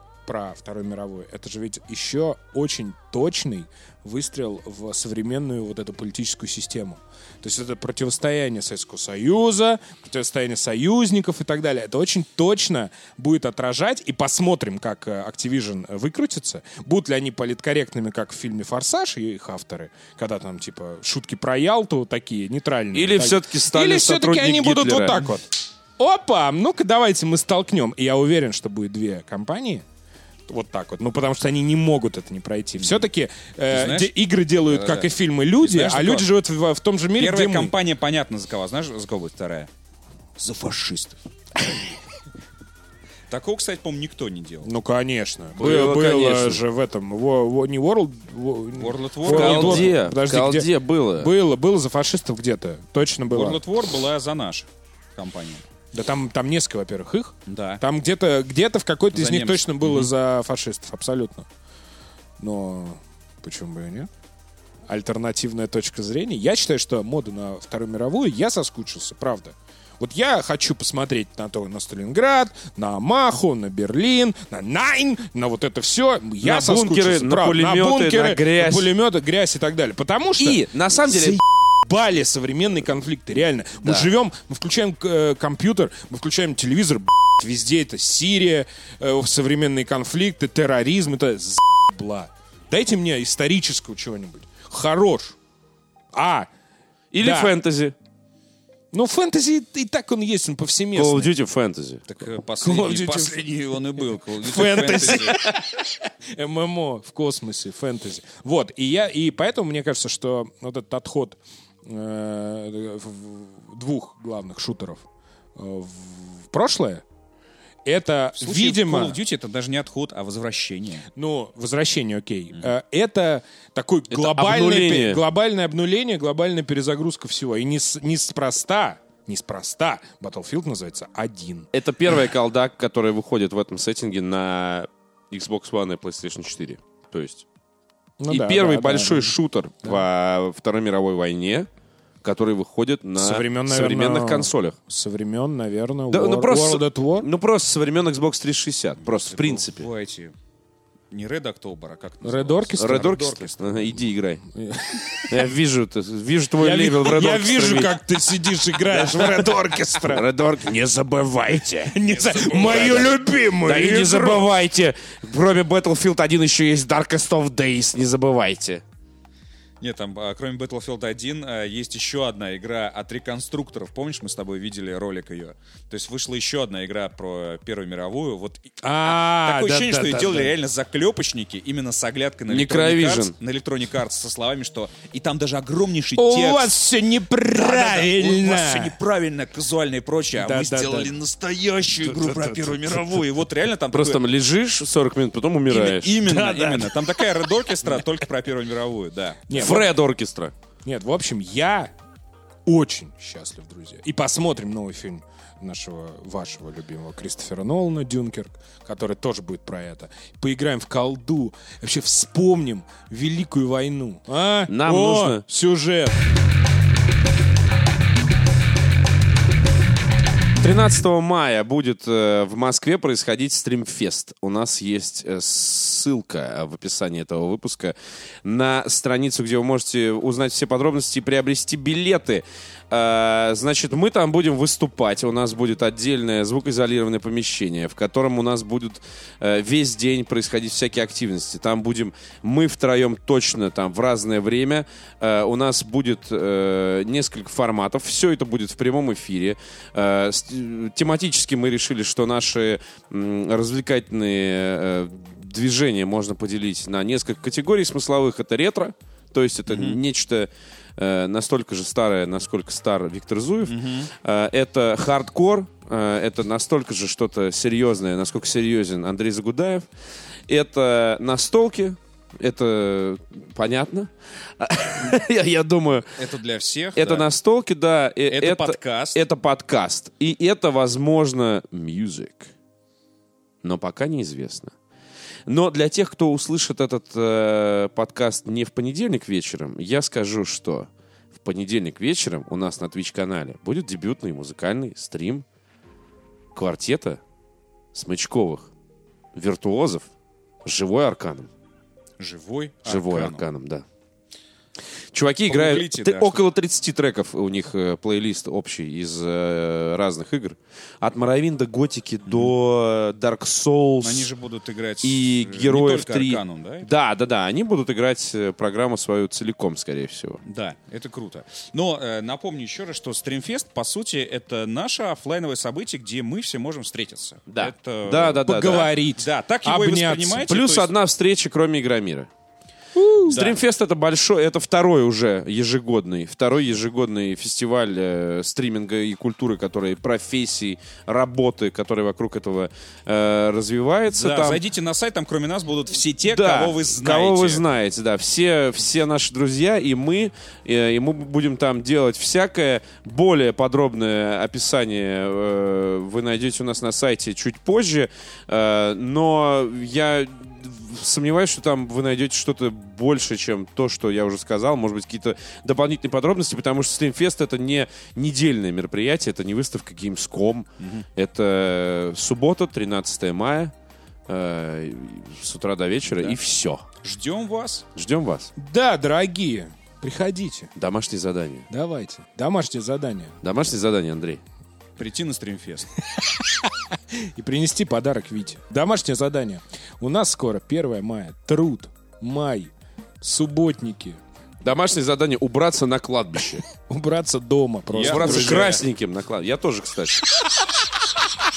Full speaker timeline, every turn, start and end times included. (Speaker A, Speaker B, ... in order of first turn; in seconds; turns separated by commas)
Speaker A: 0.2-29.8, Speaker B: 22.9-25.2, Speaker A: 30.5-37.7, Speaker C: 32.8-33.0, Speaker C: 33.7-34.1, Speaker C: 34.7-36.3, Speaker C: 37.1-39.7, Speaker C: 40.4-41.2, Speaker C: 43.3-44.7, Speaker A: 44.6-53.6, Speaker B: 45.6-46.6, Speaker C: 48.7-50.0, Speaker B: 49.3-51.3, Speaker C: 53.3-55.6, Speaker A: 55.9-61.5, Speaker C: 57.5-57.8, Speaker C: 59.1-60.1, Speaker A: 62.4-64.1, Speaker A: 64.9-95.3, Speaker B: 76.4-78.9, Speaker B: 80.4-81.4, Speaker B: 83.8-84.1, Speaker A: 96.1-96.5, Speaker B: 97.1-97.9, Speaker A: 97.2-97.5, Speaker A: 98.9-101.3, Speaker B: 100.9-102.0, Speaker C: 102.1-105.4, Speaker A: 102.6-103.5, Speaker A: 104.4-115.0, Speaker A: 115.5-117.0, Speaker A: 117.8-119.2, Speaker C: 118.4-121.0, Speaker A: 121.2-131.7, Speaker B: 124.1-125.2, Speaker B: 131.7-137.4, Speaker A: 138.2-140.0, Speaker B: 138.3-141.7, Speaker B: 142.2-144.8, Speaker A: 143.2-147.3, Speaker B: 146.1-149.9, Speaker C: 149.0-150.3, Speaker C: 151.1-153.9, Speaker A: 152.2-153.4, Speaker B: 152.7-154.4, Speaker A: 154.5-155.4, Speaker B: 155.3-158.0, Speaker A: 156.6-160.3, Speaker B: 158.9-159.3, Speaker B: 160.1-162.0, Speaker A: 161.7-164.5, Speaker C: 162.0-163.2, Speaker B: 162.6-163.1, Speaker B: 163.6-168.8, Speaker C: 169.8-186.7, Speaker A: 178.8-180.6, Speaker B: 182.5-183.3, Speaker A: 186.2-189.0, Speaker C: 187.5-194.2, Speaker A: 190.4-191.1, Speaker A: 192.0-193.0, Speaker B: 193.9-196.2, Speaker C: 195.7-199.8, Speaker A: 196.2-197.2, Speaker A: 199.5-199.9, Speaker B: 199.5-200.5, Speaker A: 200.8-201.9, Speaker A: 202.7-216.2, Speaker B: 214.7-215.4, Speaker B: 220.6-269.9, Speaker C: 259.7-260.0, Speaker C: 263.6-264.1, Speaker B: 270.5-276.2, Speaker C: 276.2-277.3, Speaker B: 276.9-282.5, Speaker C: 278.3-279.2, Speaker B: 283.6-284.7, Speaker B: 285.5-295.4, Speaker B: 296.5-297.2, Speaker B: 297.9-298.7, Speaker B: 299.3-300.1, Speaker B: 300.6-301.5, Speaker C: 302.2-303.4, Speaker B: 302.9-303.8, Speaker B: 305.1-314.3, Speaker C: 305.5-306.4, Speaker C: 312.2-312.5, Speaker C: 314.0-316.9, Speaker B: 315.0-320.4, Speaker C: 320.4-330.9, Speaker B: 327.5-328.9, Speaker A: 328.4-330.4, Speaker B: 330.4-332.3, Speaker A: 332.9-333.4, Speaker B: 333.2-344.6, Speaker C: 333.3-333.6, Speaker C: 344.1-347.6, Speaker B: 346.2-373.7, Speaker C: 370.8-371.0, Speaker B: 374.3-376.8, Speaker C: 376.1-376.4, Speaker C: 377.0-377.9, Speaker B: 377.9-378.5, Speaker A: 378.6-380.7, Speaker B: 380.8-381.7, Speaker A: 381.7-383.4, Speaker B: 383.4-384.4, Speaker C: 385.0-385.9, Speaker A: 386.2-386.7, Speaker A: 387.2-394.2, Speaker B: 394.6-396.6, Speaker A: 396.7-398.8, Speaker C: 397.9-398.8, Speaker B: 398.0-400.2